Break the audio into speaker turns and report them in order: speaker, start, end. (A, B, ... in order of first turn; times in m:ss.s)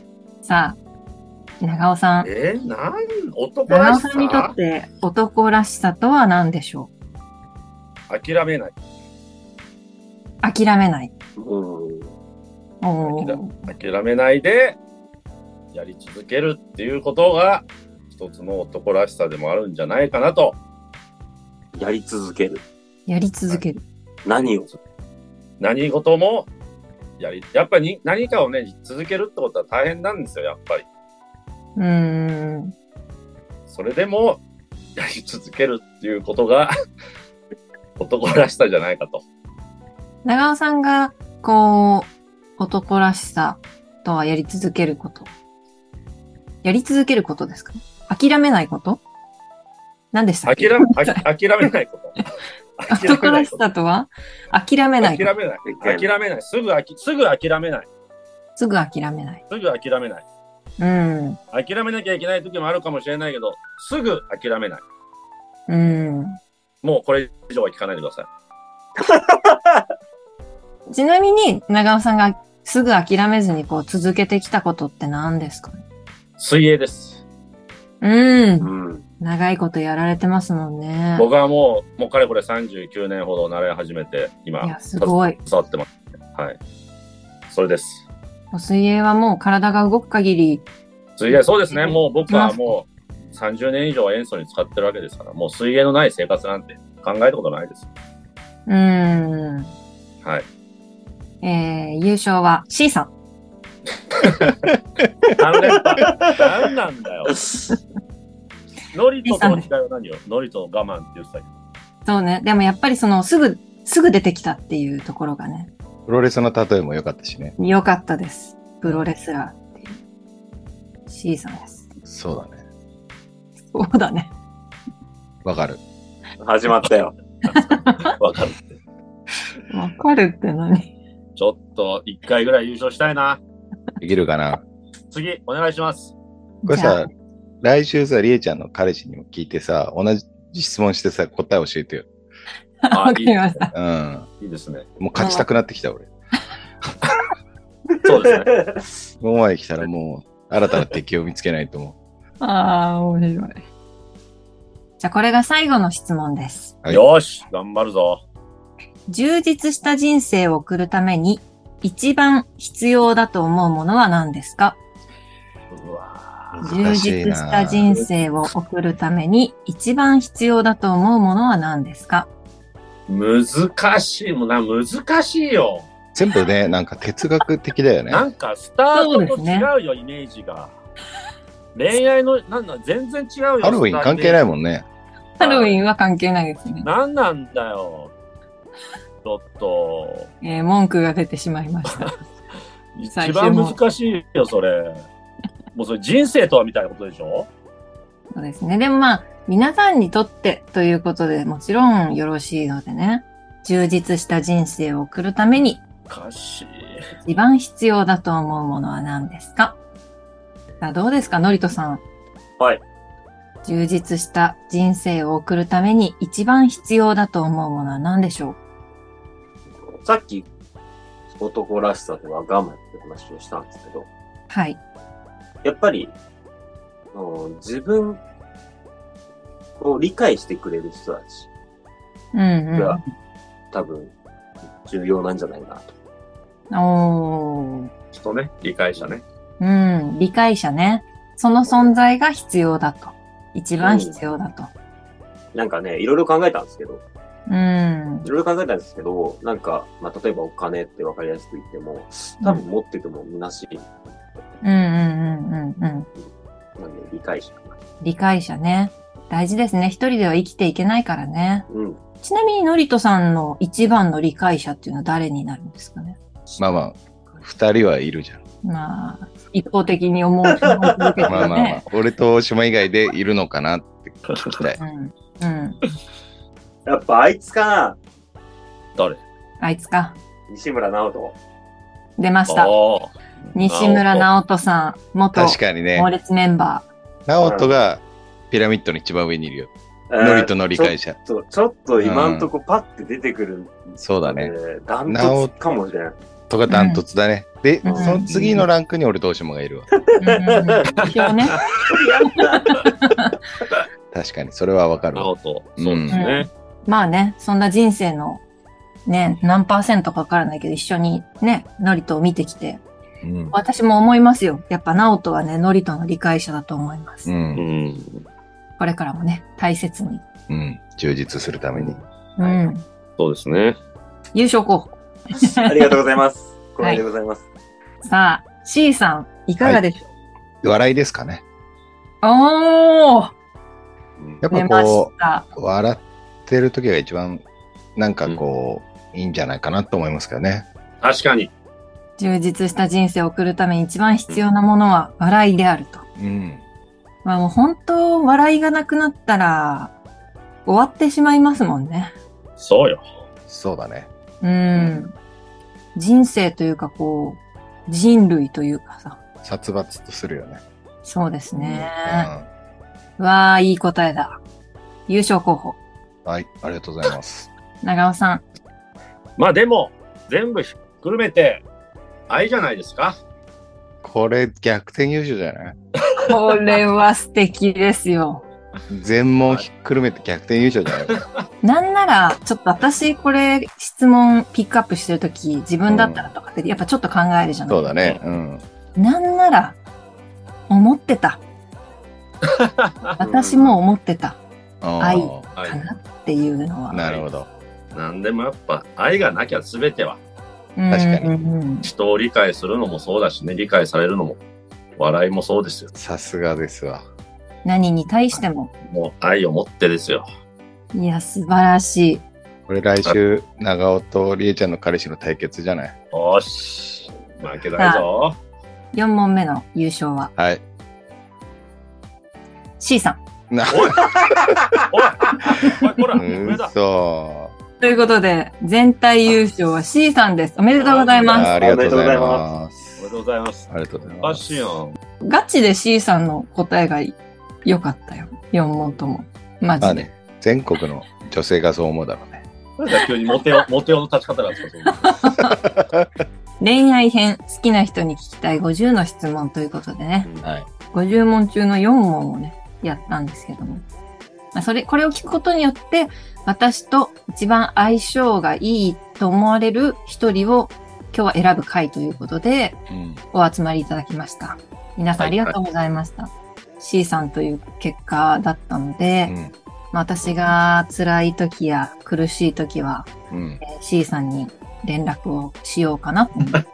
0:00.4-0:00.8 A
0:01.6-0:02.3 A
0:02.2-0:04.5 B
0:03.7-0:06.9 A
0:08.1-0:08.8 B
0:10.4-0:11.1 A
0:11.4-0:12.1 C
0:12.8-0:13.7 A
0:13.0-0:14.8 B
0:15.7-0:20.6 B
0:21.8-0:22.6 C
0:23.1-0:23.8 A
0:24.2-0:24.7 C
0:25.6-0:26.5 B
0:27.2-0:30.9 B
0:31.8-0:32.8 A
0:33.7-0:34.4 B
0:35.0-0:36.7 B
0:38.0-0:39.2 B
0:40.2-0:45.3 A
0:46.6-0:49.0 A
0:50.1-0:51.2 A
0:50.5-0:52.2 B
0:52.8-0:53.6 B
0:52.9-0:55.3 A
0:55.0-0:57.9 B
0:55.7-0:56.1 C
0:58.6-0:59.4 A
0:59.5-1:00.2 B
1:00.8-1:01.4 A
1:01.5-1:04.8 B
1:05.7-1:06.4 A
1:06.8-1:08.3 B
1:09.0-1:09.8 C
1:10.9-1:15.8 A
1:16.4-1:17.2 B
1:18.0-1:21.3 A
1:18.6-1:19.0 C
1:21.2-1:26.6 B
1:24.6-1:25.4 A
1:27.5-1:28.0 B
1:28.5-1:30.7 A
1:31.2-1:37.9 B
1:31.3-1:32.8 A
1:38.7-1:39.7 A
1:41.4-1:43.1 A
1:44.1-1:44.7 B
1:45.3-1:47.5 B
1:46.0-1:46.4 C
1:48.9-1:51.5 B
1:49.2-1:49.7 A
1:52.1-1:55.7 A
1:56.1-1:57.6 D
1:57.6-2:00.0 A
2:01.1-2:01.9 A
2:02.0-2:02.6 D
2:03.7-2:04.3 A
2:05.4-2:05.8 D
2:06.4-2:07.2 C
2:07.5-2:08.2 A
2:07.6-2:08.8 B
2:09.7-2:10.9 A
2:11.4-2:13.4 B
2:14.0-2:14.6 D
2:15.1-2:16.1 B
2:16.6-2:17.1 A
2:16.7-2:17.1 D
2:17.6-2:22.1 D
2:22.8-2:23.7 A
2:22.9-2:23.6 B
2:23.7-2:24.3 D
2:24.4-2:24.8 B
2:25.0-2:26.1 D
2:25.2-2:25.5 A
2:28.0-2:28.5 B
2:28.1-2:28.8 C
2:29.2-2:32.0 D
2:32.4-2:33.6 A
2:35.0-2:36.8 A
2:36.9-2:38.2 B
2:39.1-2:44.8 A
2:45.7-2:46.8 B
2:46.6-2:48.0 D
2:46.6-2:52.3 A
2:53.1-2:55.9 B
2:56.1-2:58.3 D
2:58.1-3:00.7 B
2:58.9-2:59.7 A
3:01.7-3:04.4 B
3:03.6-3:04.9 D
3:05.4-3:06.9 A
3:05.4-3:05.8 B
3:06.8-3:08.1 B
3:09.2-3:10.3 B
3:10.4-3:12.1 A
3:13.0-3:15.1 B
3:13.1-3:13.8 A
3:15.7-3:17.5 B
3:18.3-3:25.8 A
3:26.1-3:27.0 B
3:27.2-3:29.8 A
3:30.8-3:32.0 A
3:33.6-3:38.6 A
3:40.0-3:40.5 C
3:41.4-3:44.1 C
3:44.5-3:44.8 A
3:45.6-3:46.1 C
3:47.1-3:48.2 C
3:49.8-3:51.5 C
3:52.3-3:53.0 A
3:53.7-3:54.1 C
3:54.8-3:55.9 C
3:56.7-3:57.9 A
3:58.1-3:59.2 B
3:59.6-4:04.7 A
4:03.8-4:04.2 C
4:05.5-4:07.0 C
4:07.5-4:08.3 A
4:08.2-4:13.9 C
4:14.6-4:16.1 A
4:16.8-4:17.8 C
4:18.0-4:21.7 A
4:21.7-4:22.0 C
4:22.2-4:26.7 A
4:26.6-4:28.4 D
4:28.6-4:31.8 A
4:30.5-4:31.4 C
4:31.3-4:34.8 D
4:34.3-4:34.6 B
4:34.8-4:35.8 A
4:36.9-4:38.0 C
4:39.6-4:40.2 A
4:40.5-4:41.4 C
4:42.2-4:42.7 A
4:42.5-4:44.3 B
4:43.6-4:46.9 A
4:45.3-4:46.1 D
4:47.3-4:51.2 D
4:47.4-4:47.8 C
4:50.1-4:56.2 C
4:52.0-4:52.5 D
4:54.0-4:54.5 D
4:55.1-4:55.5 D
4:56.5-4:59.9 D
4:56.7-4:57.0 A
4:57.8-4:58.2 C
4:57.9-4:58.6 A
5:00.1-5:01.0 C
5:00.2-5:01.6 A
5:01.9-5:02.8 C
5:02.7-5:03.3 A
5:04.1-5:06.3 D
5:05.2-5:06.5 B
5:06.1-5:08.4 A
5:09.1-5:12.8 A
5:13.2-5:13.5 D
5:13.5-5:17.3 A
5:17.3-5:17.6 D
5:17.6-5:18.3 B
5:18.8-5:20.2 A
5:20.5-5:22.0 D
5:21.8-5:22.8 A
5:23.2-5:23.8 B
5:24.3-5:25.6 A
5:25.6-5:27.4 C
5:28.0-5:30.0 A
5:30.6-5:31.4 D
5:32.2-5:33.3 A
5:34.4-5:37.4 D
5:34.5-5:35.5 A
5:38.0-5:40.7 D
5:41.0-5:41.5 B
5:42.2-5:46.1 A
5:46.2-5:46.6 D
5:47.2-5:49.9 A
5:50.7-5:52.2 A
5:52.6-5:53.1 B
5:53.5-5:54.1 D
5:54.4-5:55.1 A
5:56.0-5:59.2 A
5:59.4-6:00.6 D
6:01.0-6:02.3 A
6:01.6-6:02.5 D
6:03.2-6:04.4 A
6:05.1-6:05.8 A
6:06.2-6:07.5 D
6:07.8-6:08.4 A
6:09.4-6:11.6 B
6:12.3-6:13.2 B
6:14.0-6:15.8 D
6:16.3-6:18.4 A
6:18.9-6:21.2 D
6:21.6-6:28.0 A
6:25.9-6:26.3 D
6:27.7-6:28.6 D
6:29.0-6:29.8 A
6:30.7-6:31.4 A
6:32.4-6:33.2 B
6:33.2-6:34.4 A
6:33.2-6:33.8 C
6:34.8-6:35.5 D
6:35.0-6:37.1 A
6:35.6-6:35.8 B
6:36.9-6:37.5 D
6:37.9-6:40.2 B
6:40.8-6:41.9 A
6:40.9-6:41.3 D
6:41.8-6:44.4 B
6:45.0-6:45.9 B
6:46.0-6:47.0 D
6:47.6-6:48.7 A
6:48.9-6:50.3 B
6:50.9-6:52.2 A
6:52.7-6:56.0 D
6:56.1-6:58.4 B
6:57.8-6:58.1 A
6:58.9-7:00.3 A
7:00.4-7:00.6 D
7:02.8-7:03.2 A
7:03.5-7:04.8 D
7:03.7-7:04.2 B
7:04.9-7:06.7 B
7:05.4-7:07.6 D
7:07.8-7:11.5 A
7:10.8-7:11.5 B
7:11.2-7:13.0 D
7:11.4-7:12.4 C
7:13.0-7:15.0 B
7:13.7-7:14.6 D
7:15.2-7:20.1 A
7:19.8-7:22.4 D
7:22.8-7:25.2 B
7:25.0-7:25.6 A
7:25.5-7:26.1 D
7:26.6-7:30.3 A
7:30.4-7:30.7 D
7:30.9-7:33.8 A
7:34.5-7:42.8 A
7:42.9-7:43.2 D
7:43.3-7:49.4 A
7:45.2-7:45.6 D
7:49.3-7:49.5 D
7:49.9-7:53.1 A
7:53.3-7:53.6 D
7:53.6-7:56.6 A